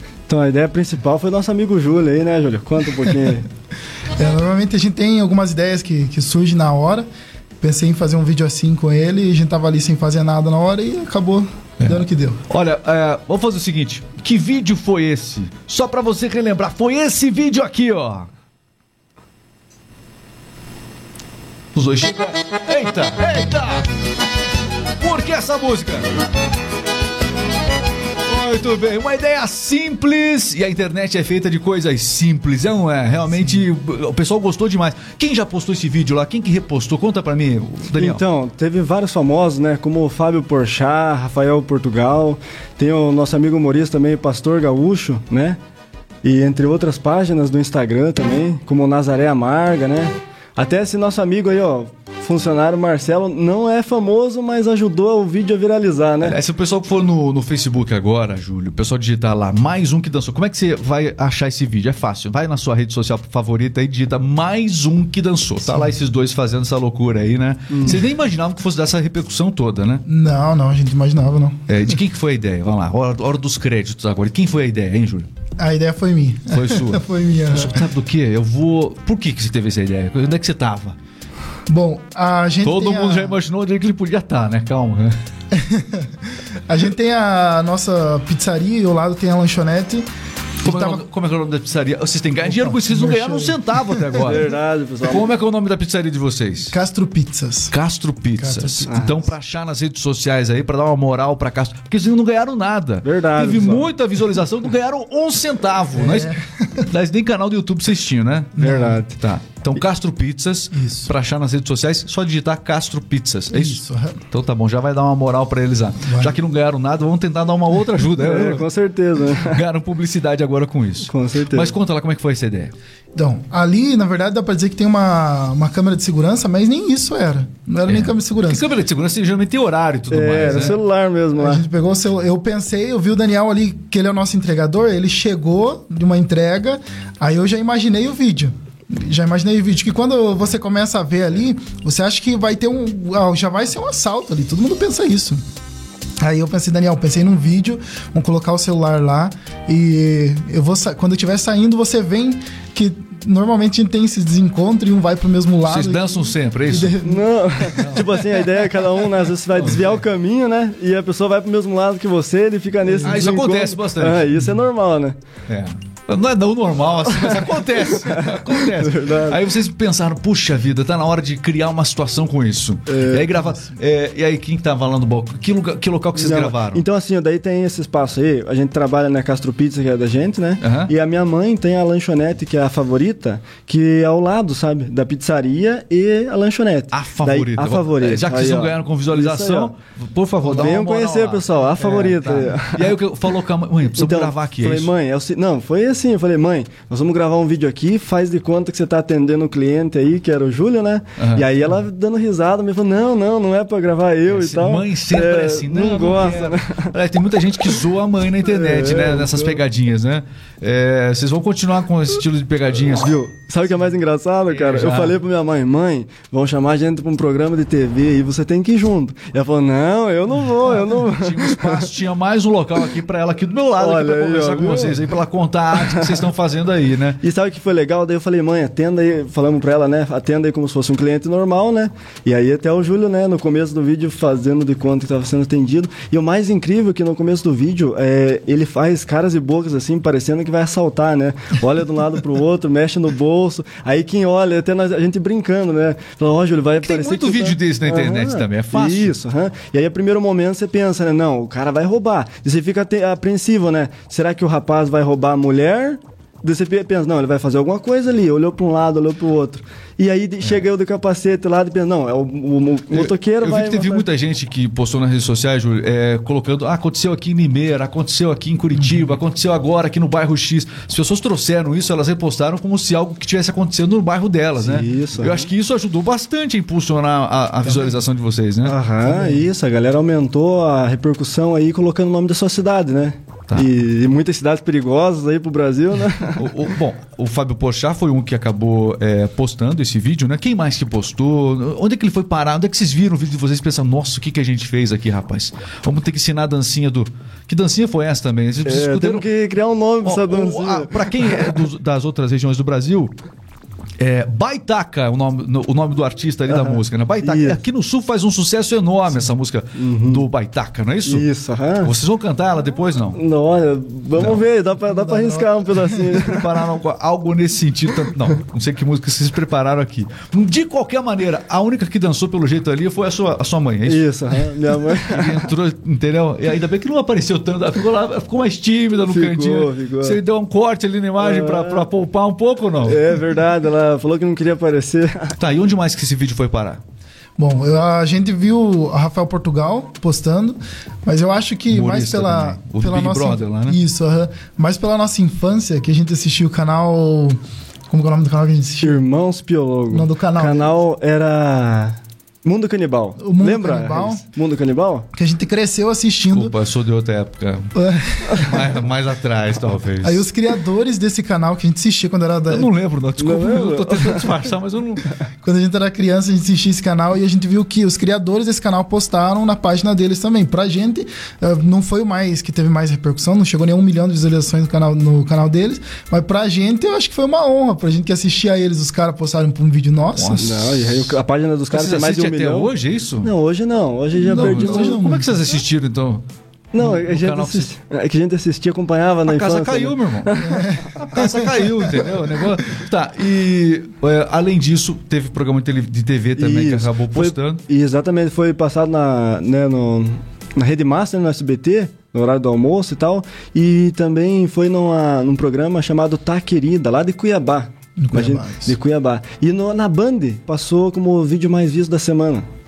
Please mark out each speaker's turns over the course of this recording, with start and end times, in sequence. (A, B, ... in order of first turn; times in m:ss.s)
0:00.3-0:03.4 A
0:04.2-0:07.0 B
0:07.6-0:12.4 B
0:11.8-0:18.3 C
0:21.7-0:23.9 C
0:25.0-0:26.0 C
0:28.2-0:38.2 C
0:37.9-0:45.6 A
0:46.2-0:56.4 A
0:56.2-1:10.0 C
1:05.6-1:05.9 B
1:07.7-1:08.0 A
1:10.0-1:12.0 B
1:11.7-1:15.3 C
1:15.6-1:17.8 B
1:16.5-1:21.0 C
1:21.7-1:23.4 B
1:22.6-1:25.1 C
1:25.5-1:26.1 B
1:26.7-1:30.0 B
1:30.6-1:31.0 B
1:30.6-1:34.5 C
1:32.4-1:34.1 B
1:34.2-1:35.3 A
1:35.0-1:36.7 C
1:36.7-1:37.7 B
1:37.7-1:58.6 C
1:38.4-1:39.2 B
1:38.9-1:39.2 A
1:43.0-1:43.9 A
1:45.9-1:46.9 B
1:48.6-1:49.0 B
1:48.6-1:49.1 A
1:50.7-1:51.1 B
1:53.5-1:54.2 B
1:56.0-1:56.4 B
1:58.2-1:59.6 A
1:59.4-2:02.7 C
2:01.1-2:01.7 A
2:03.1-2:08.6 B
2:07.9-2:10.8 C
2:10.1-2:11.6 A
2:10.4-2:10.8 B
2:11.4-2:25.4 B
2:26.2-2:37.3 B
2:35.6-2:37.0 C
2:37.0-2:45.2 A
2:39.6-2:40.0 C
2:42.8-2:43.3 B
2:43.0-2:44.3 C
2:45.5-2:56.8 C
2:47.0-2:49.4 A
2:52.9-2:53.4 A
2:56.1-3:09.7 A
3:00.6-3:00.9 C
3:06.9-3:14.9 C
3:10.4-3:13.0 A
3:13.9-3:26.9 A
3:21.2-3:21.5 C
3:24.3-3:33.4 C
3:28.4-3:29.6 A
3:33.2-3:41.9 A
3:34.5-3:35.2 C
3:40.7-3:47.2 C
3:43.8-3:45.1 A
3:45.7-3:46.2 A
3:47.2-4:24.1 A
4:06.8-4:09.1 C
4:22.9-4:39.4 C
4:34.6-4:35.5 A
4:38.6-4:46.5 A
4:46.3-4:59.3 C
4:58.6-5:01.6 A
5:00.0-5:03.1 C
5:04.0-5:11.3 C
5:06.5-5:07.6 A
5:09.8-5:10.2 A
5:11.0-5:11.9 A
5:11.8-5:13.2 C
5:13.1-5:16.4 A
5:14.2-5:14.4 C
5:14.8-5:15.9 B
5:16.1-5:24.1 C
5:23.8-5:25.5 A
5:24.9-5:33.0 C
5:29.0-5:30.2 A
5:31.2-5:31.9 A
5:32.8-5:35.4 A
5:35.4-5:36.8 C
5:37.4-5:47.4 B
5:41.7-5:43.8 C
5:47.9-5:49.0 B
5:48.8-5:55.0 A
5:49.9-5:50.7 B
5:53.2-5:54.2 B
5:55.1-5:56.5 B
5:56.3-6:00.2 C
5:57.7-5:58.6 B
6:00.0-6:02.7 B
6:02.5-6:05.1 C
6:03.2-6:04.4 A
6:05.4-6:20.4 B
6:20.1-6:21.2 C
6:20.4-6:25.0 A
6:21.7-6:23.3 C
6:24.2-6:26.2 C
6:24.2-6:25.4 B
6:26.7-6:30.8 A
6:26.8-6:27.7 C
6:29.2-6:37.6 C
6:30.4-6:31.7 B
6:36.4-6:52.4 A
6:48.0-6:48.7 B